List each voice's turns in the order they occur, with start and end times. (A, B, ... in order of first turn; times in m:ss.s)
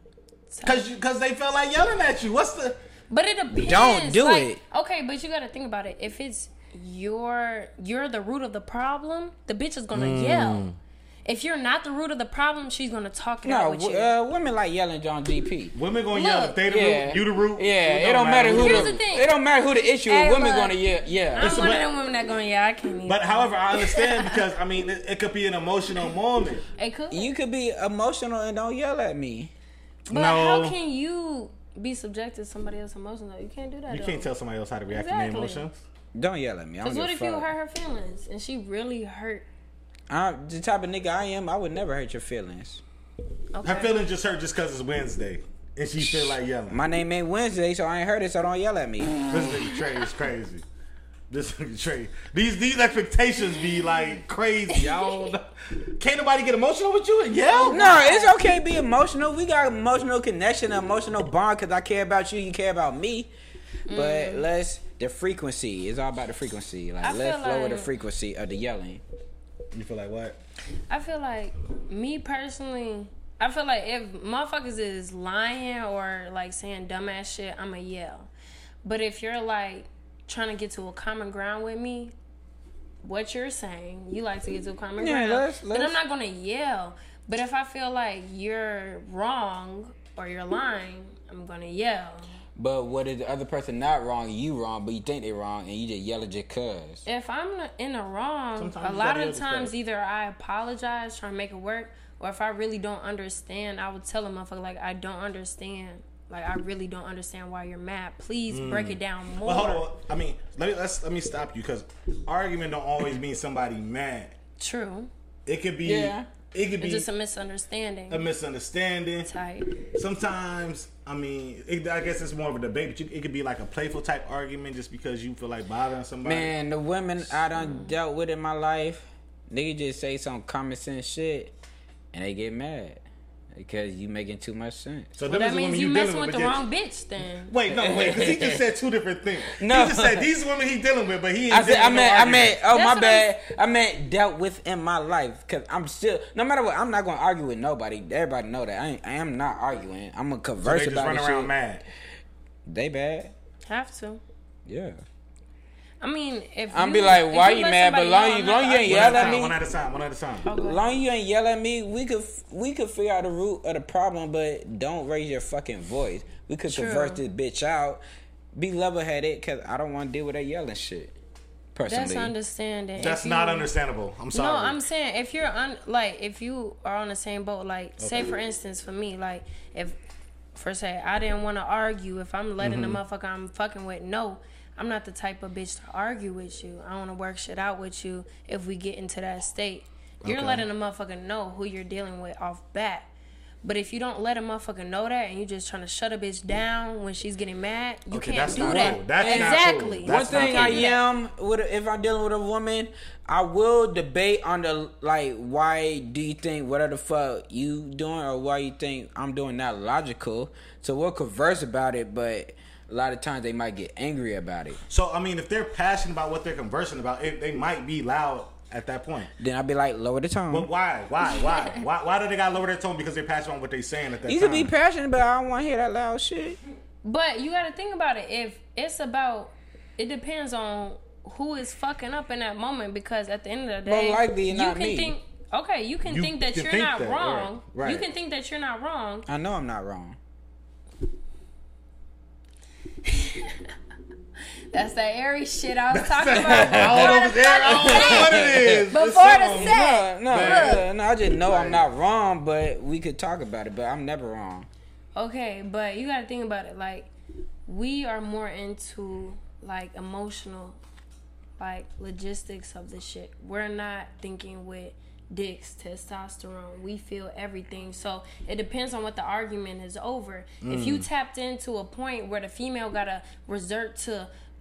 0:00.5-0:00.8 A
0:00.6-0:02.8 B
0:03.1-0:10.7 A
0:03.5-0:04.6 C
0:09.9-0:10.8 B
0:11.2-0:14.1 A
0:13.4-0:15.8 C
0:15.7-0:18.9 B
0:16.1-0:16.6 A
0:16.7-0:21.8 C
0:18.5-0:24.4 A
0:21.4-0:21.9 B
0:23.1-0:26.6 B
0:26.8-0:27.3 A
0:27.1-0:29.5 C
0:30.1-0:34.3 A
0:30.1-0:30.8 B
0:33.9-0:35.8 B
0:34.9-0:35.7 A
0:36.2-0:37.5 C
0:36.8-0:39.5 A
0:40.1-0:42.8 C
0:43.5-0:43.9 A
0:43.6-0:46.8 B
0:46.0-0:49.6 C
0:49.3-0:50.6 B
0:51.3-0:58.0 B
0:57.5-0:58.5 A
0:57.7-1:03.3 C
1:03.9-1:04.4 A
1:03.9-1:09.0 C
1:07.0-1:07.9 A
1:09.7-1:10.4 B
1:10.9-1:18.3 A
1:18.8-1:22.1 A
1:23.0-1:32.3 A
1:25.0-1:26.0 C
1:32.6-1:37.0 C
1:37.0-1:49.9 A
1:38.6-1:39.7 B
1:48.5-1:54.3 B
1:54.6-1:55.1 A
1:55.5-1:57.1 B
1:55.8-1:56.3 C
1:56.8-1:58.3 A
1:58.1-1:59.3 B
1:59.2-1:59.7 A
1:59.9-2:06.5 B
2:06.2-2:11.5 C
2:07.6-2:07.9 A
2:12.1-2:13.0 C
2:13.5-2:15.1 C
2:15.2-2:16.7 B
2:15.3-2:17.6 A
2:17.5-2:22.6 B
2:17.7-2:18.6 C
2:19.5-2:20.3 C
2:21.5-2:31.5 C
2:22.7-2:23.3 A
2:30.6-2:31.8 B
2:32.7-2:33.3 C
2:33.6-2:34.2 A
2:34.7-2:35.0 C
2:36.0-2:39.5 A
2:36.7-2:39.6 C
2:38.8-2:40.5 B
2:40.4-2:40.9 A
2:40.6-2:48.0 C
2:46.7-2:47.2 A
2:48.5-2:51.2 C
2:51.7-2:52.3 C
2:51.9-2:53.7 A
2:53.0-2:54.8 B
2:54.3-3:00.0 A
2:58.0-2:58.3 B
3:00.5-3:13.1 A
3:02.6-3:03.0 B
3:10.2-3:10.7 B
3:13.6-3:21.0 A
3:18.1-3:20.9 B
3:18.5-3:34.8 C
3:34.9-3:39.3 B
3:39.4-3:40.7 C
3:40.5-3:44.7 B
3:41.3-3:41.8 A
3:44.3-3:46.6 C
3:47.0-3:59.3 A
3:53.8-3:55.2 C
3:56.0-3:58.0 B
3:59.3-4:00.2 C
4:03.0-4:03.7 A
4:04.7-4:10.8 A
4:05.9-4:11.8 B
4:06.4-4:08.9 C
4:09.5-4:14.7 C
4:15.2-4:17.1 A
4:17.6-4:20.8 A
4:21.6-4:34.3 A
4:30.6-4:31.1 B